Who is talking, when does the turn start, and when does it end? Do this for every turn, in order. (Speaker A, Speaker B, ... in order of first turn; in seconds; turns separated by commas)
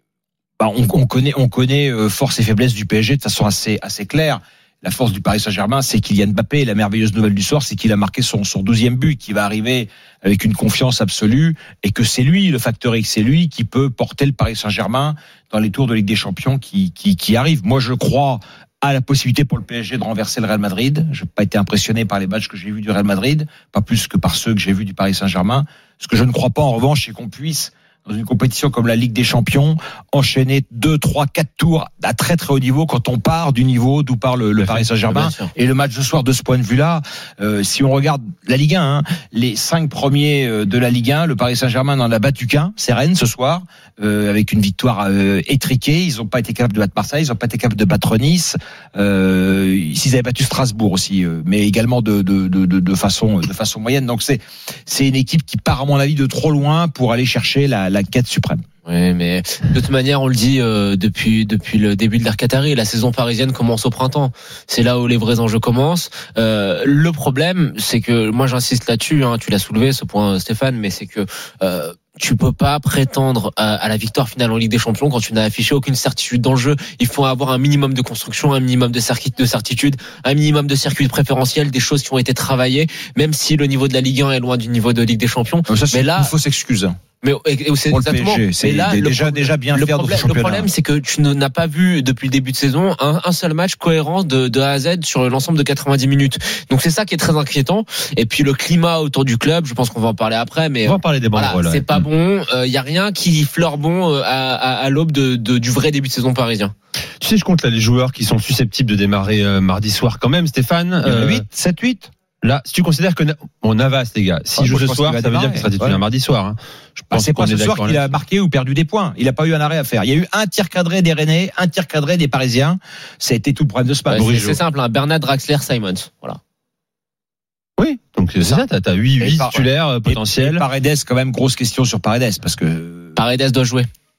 Speaker A: 0.6-58.6, Speaker B: 34.5-35.5, Speaker B: 58.9-86.3, Speaker A: 85.7-87.0, Speaker B: 87.2-106.7, Speaker A: 87.9-90.7, Speaker C: 100.8-102.0, Speaker C: 107.2-111.4, Speaker A: 111.0-112.1, Speaker C: 112.4-118.2, Speaker A: 114.6-116.0, Speaker A: 117.1-124.3, Speaker B: 124.1-126.4, Speaker C: 124.1-124.6, Speaker C: 127.8-130.6, Speaker A: 129.2-133.2, Speaker B: 133.2-133.9